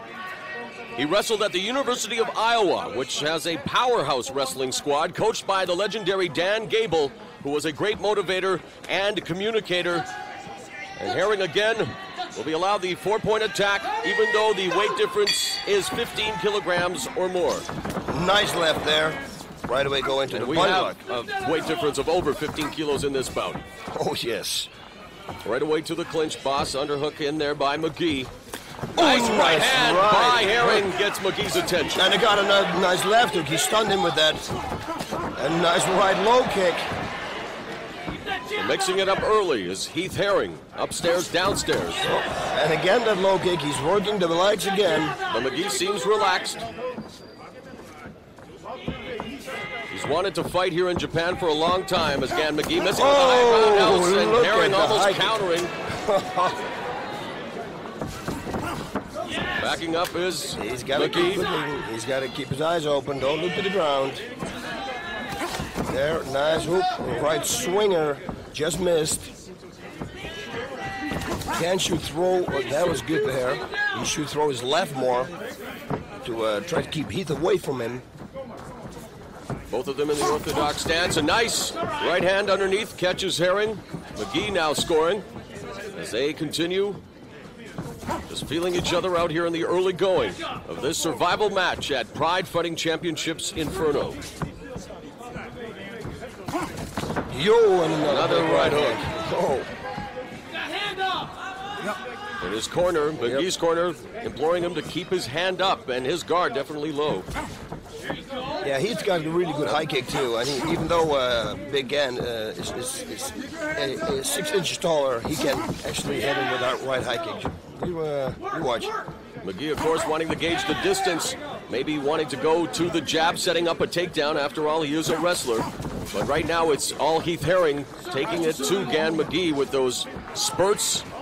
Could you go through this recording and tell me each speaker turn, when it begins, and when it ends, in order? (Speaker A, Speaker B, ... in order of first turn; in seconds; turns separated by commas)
Speaker A: 0.9-10.1, Speaker A: 11.0-17.6, Speaker B: 18.1-21.0, Speaker A: 20.3-23.6, Speaker B: 23.9-24.7, Speaker A: 25.4-28.3, Speaker B: 28.9-30.9, Speaker A: 29.0-32.0, Speaker B: 31.9-34.5, Speaker B: 35.4-36.8, Speaker A: 38.5-42.0, Speaker B: 42.0-45.2, Speaker A: 45.3-46.6, Speaker A: 49.9-55.7, Speaker B: 52.9-56.6, Speaker A: 59.5-61.4, Speaker B: 60.5-64.2, Speaker B: 65.9-69.3, Speaker B: 71.5-75.3, Speaker B: 76.2-78.0, Speaker A: 79.7-85.2, Speaker A: 85.9-87.0, Speaker A: 88.3-94.2, Speaker B: 97.3-99.7, Speaker A: 98.1-99.0, Speaker A: 102.4-107.3, Speaker B: 108.6-118.9, Speaker A: 119.4-131.0